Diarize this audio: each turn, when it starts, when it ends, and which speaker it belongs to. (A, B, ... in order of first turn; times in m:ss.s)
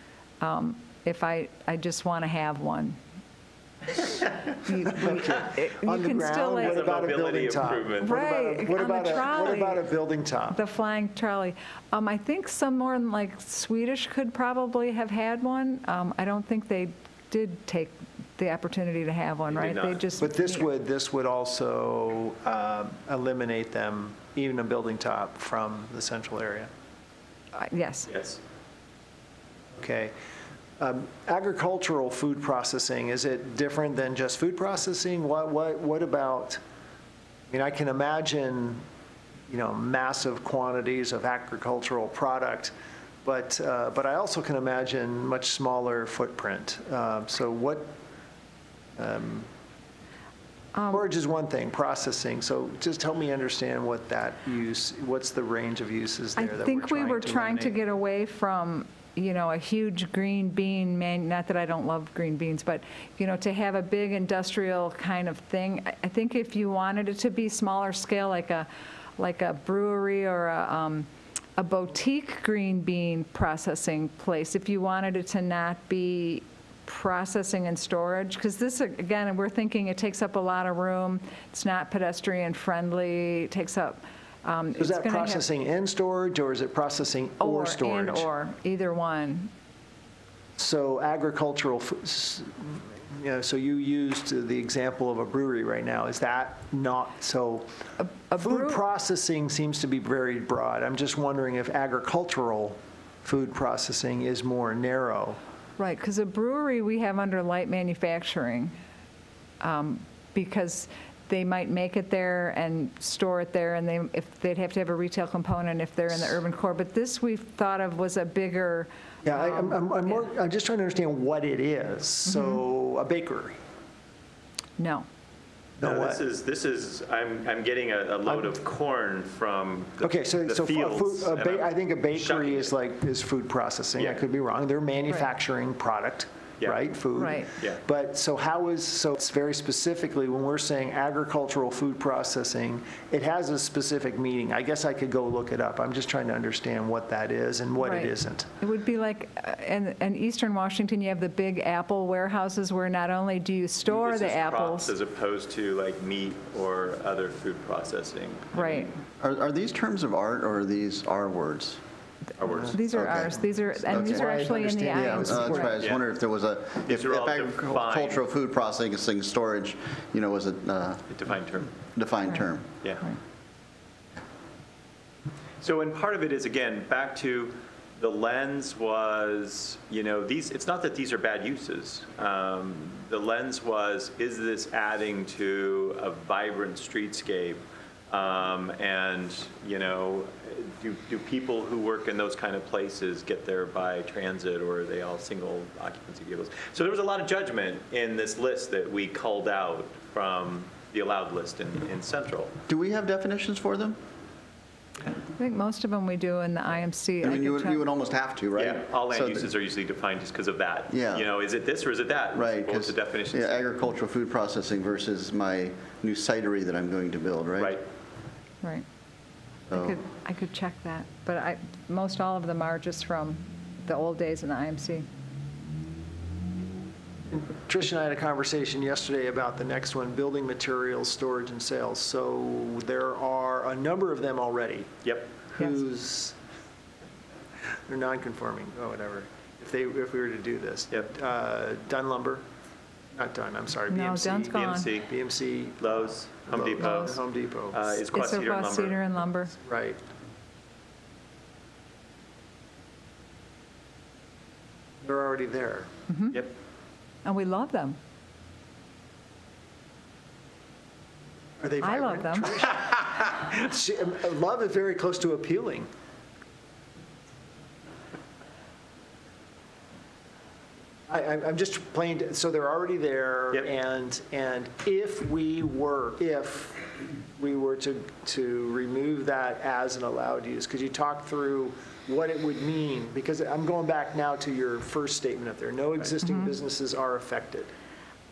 0:00.4-0:03.0 A
0:04.5-0:06.9 A
0:04.8-0:10.6 B
0:06.6-0:08.2 C
0:08.0-0:09.8 A
0:10.5-0:20.7 A
0:19.5-0:20.0 C
0:20.2-0:26.7 B
0:27.5-0:28.1 A
0:28.1-0:28.4 C
0:29.7-0:30.1 B
0:30.8-0:36.6 B
0:37.5-0:38.8 B
0:39.5-0:42.7 B
0:43.2-0:47.9 B
0:49.0-0:49.5 B
0:50.7-0:51.1 A
0:50.9-0:57.8 B
0:56.4-1:25.4 A
1:24.8-1:28.3 B
1:27.4-1:29.5 A
1:30.6-1:37.7 B
1:38.0-1:38.8 A
1:38.3-1:45.4 B
1:45.8-1:48.7 A
1:49.6-2:00.2 A
1:59.2-2:03.6 B
2:02.3-2:02.6 A
2:04.8-2:05.1 A
2:05.8-2:06.2 B
2:05.8-2:12.7 C
2:10.0-2:28.5 B
2:14.0-2:14.2 C
2:17.1-2:17.5 A
2:27.8-2:34.9 A
2:33.9-2:38.9 C
2:38.5-2:38.9 A
2:39.2-2:41.8 D
2:42.4-2:42.8 C
2:42.5-2:42.8 B
2:42.7-2:45.8 A
2:42.9-2:44.3 D
2:43.3-2:45.7 B
2:44.8-2:51.1 D
2:46.8-2:48.2 C
2:51.1-2:51.7 C
2:51.9-2:52.7 D
2:55.6-3:22.5 C
3:22.7-3:24.0 D
3:25.4-3:27.8 A
3:27.2-3:29.5 D
3:28.5-3:33.7 C
3:30.9-3:31.3 D
3:32.3-3:37.8 D
3:37.6-3:37.8 C
3:39.7-3:40.0 D
3:39.7-3:45.1 A
3:47.3-3:56.4 B
3:55.0-3:55.4 C
3:57.9-4:02.4 B
4:03.1-4:07.8 B
4:03.9-4:04.9 A
4:04.5-4:05.1 C
4:05.8-4:09.0 C
4:06.8-4:07.2 A
4:08.1-4:09.5 A
4:09.6-4:10.0 B
4:15.0-4:15.9 B
4:16.1-4:16.5 A
4:17.2-4:18.0 A
4:21.6-4:25.9 B
4:21.8-4:22.7 A
4:31.1-4:47.7 B
4:46.2-4:46.5 A